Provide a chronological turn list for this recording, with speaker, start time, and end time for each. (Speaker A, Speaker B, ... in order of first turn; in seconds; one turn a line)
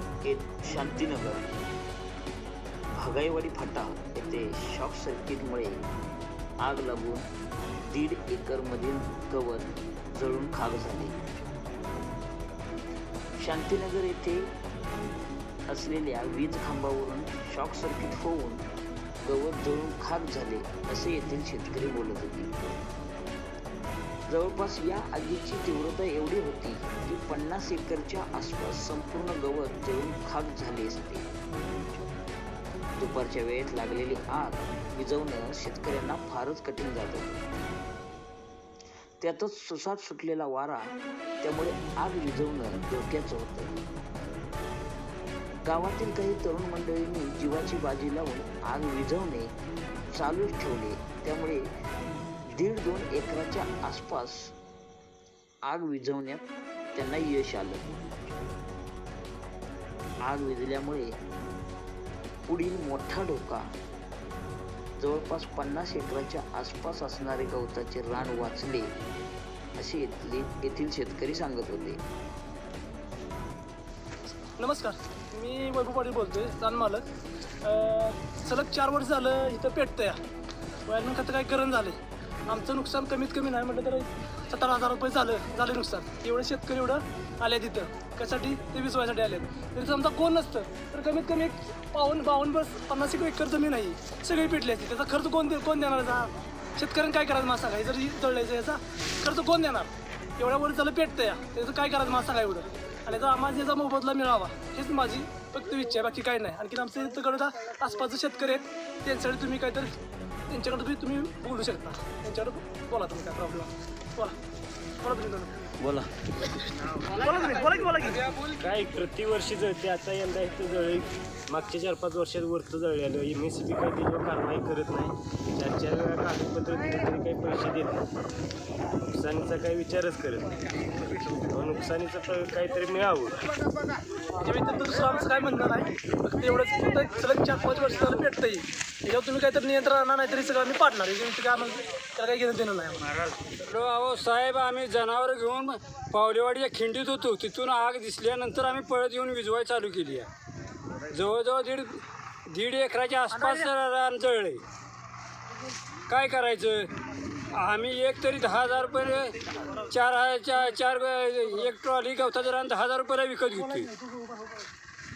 Speaker A: 0.2-1.5
Speaker A: 2.9-5.9
Speaker A: 6.6-7.3
Speaker A: 7.8-11.2
Speaker A: 13.4-14.5
Speaker A: 15.7-18.6
Speaker A: 19.2-22.6
Speaker A: 24.3-31.3
Speaker A: 33.0-37.4
Speaker A: 39.2-43.8
Speaker A: 45.6-49.5
Speaker A: 50.1-51.7
Speaker A: 52.4-54.5
Speaker A: 55.6-57.9
Speaker A: 60.2-61.2
Speaker A: 62.5-63.7
Speaker A: 65.0-69.0
Speaker A: 69.8-72.0
Speaker B: 74.6-77.0
Speaker B: 77.6-80.2
Speaker B: 80.8-109.9
Speaker B: 110.5-114.3
Speaker B: 115.0-115.7
Speaker C: 115.8-116.1
Speaker B: 116.9-118.3
Speaker C: 118.6-128.0
Speaker C: 129.1-130.5
Speaker C: 131.4-133.4
Speaker B: 134.3-143.2
Speaker D: 143.7-150.3
Speaker D: 151.1-154.6
Speaker D: 156.1-156.9
Speaker D: 157.5-163.9
Speaker B: 163.7-164.7